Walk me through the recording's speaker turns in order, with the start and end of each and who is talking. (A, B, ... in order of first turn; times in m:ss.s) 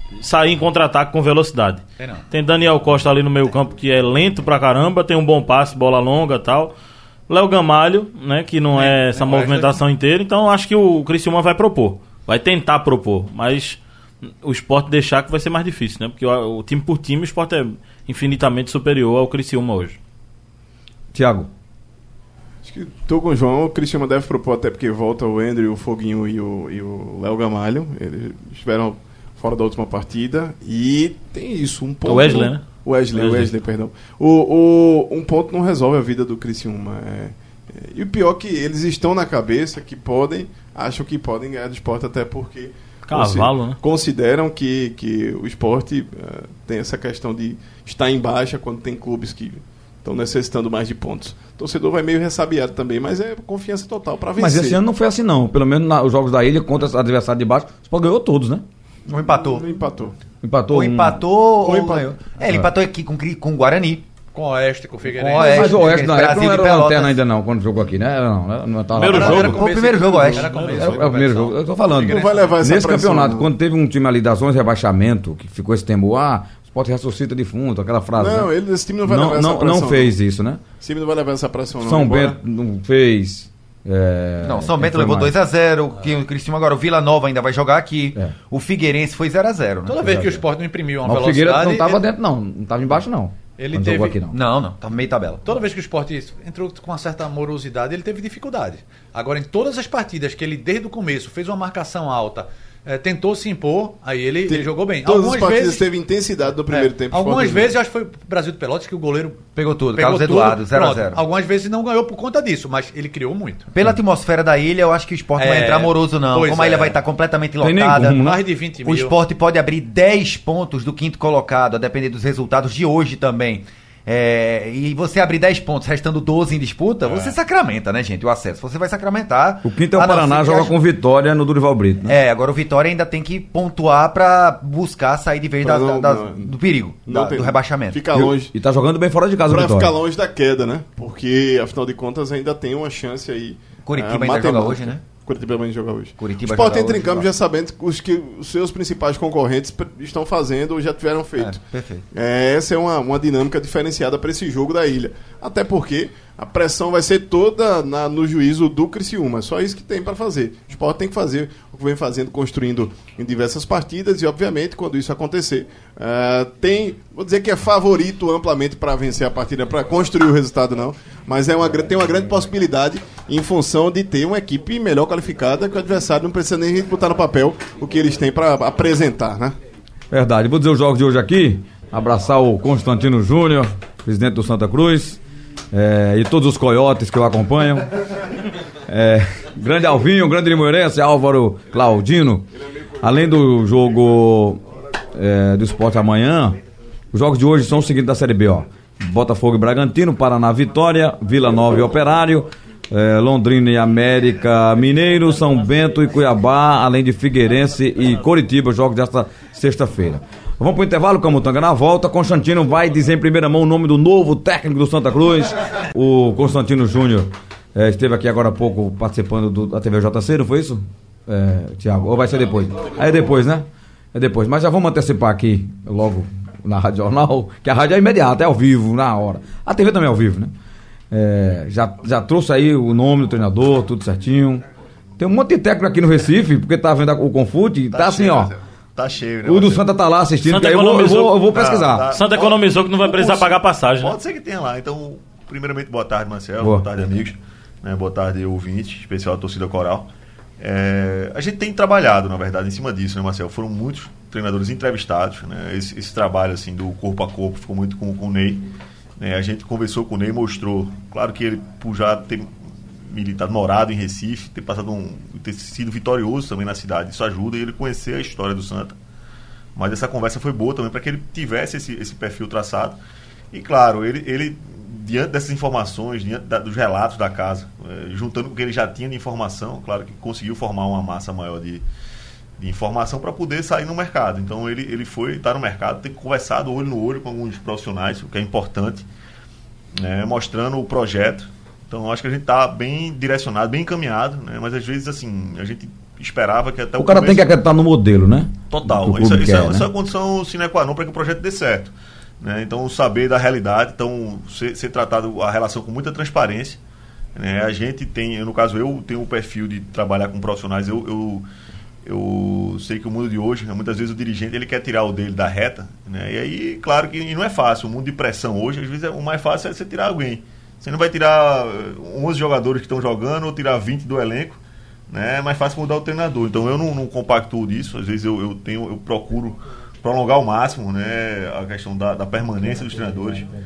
0:00.2-0:06.7 A
0:02.0-0:02.3 B
0:07.3-0:13.8 A
0:08.7-0:09.7 B
0:14.4-0:20.0 A
0:21.1-0:21.5 C
0:22.6-0:54.8 D
0:32.0-0:33.5 A
0:43.1-0:43.8 A
0:54.4-0:58.6 C
0:59.1-0:59.6 E
0:59.3-1:00.1 D
1:00.4-1:01.7 C
1:00.7-1:04.1 E
1:04.3-1:05.9 B
1:05.0-1:07.2 E
1:05.3-1:09.6 C
1:08.9-1:09.6 A
1:09.1-1:12.6 B
1:09.1-1:11.0 E
1:10.6-1:18.5 C
1:11.9-1:13.5 D
1:18.2-1:20.1 D
1:19.0-1:20.6 C
1:20.8-1:22.4 D
1:21.8-1:25.3 C
1:24.4-1:30.3 E
1:29.8-1:32.0 B
1:30.0-1:30.4 C
1:31.0-1:34.4 C
1:33.6-1:34.2 B
1:34.3-1:35.6 E
1:35.4-1:45.9 B
1:44.5-1:47.7 D
1:46.7-1:53.7 B
1:49.5-1:51.2 E
1:53.7-1:58.2 E
1:55.4-1:57.0 B
1:57.6-1:58.4 C
1:58.2-1:59.2 B
1:58.8-2:10.7 E
2:09.6-2:12.2 C
2:12.0-2:18.1 E
2:15.6-2:18.5 D
2:18.1-2:19.9 C
2:19.5-2:59.6 D
2:23.8-2:25.0 E
2:26.2-2:27.3 E
2:31.4-2:32.0 E
3:00.1-3:05.2 C
3:05.7-3:08.0 C
3:08.9-3:12.5 C
3:13.0-3:14.6 C
3:15.1-3:16.6 C
3:17.1-3:50.5 C
3:51.1-3:54.6 C
3:55.2-3:58.5 C
3:57.9-3:59.9 F
3:59.4-4:02.1 C
4:00.4-4:01.4 A
4:01.5-4:29.0 F
4:02.0-4:04.2 A
4:06.6-4:06.8 C
4:29.8-4:33.0 F
4:33.5-4:41.8 F
4:42.6-4:49.1 F
4:50.0-4:57.5 F
4:57.0-4:59.9 C
4:58.7-5:06.8 F
5:07.3-5:11.4 F
5:12.0-5:33.5 F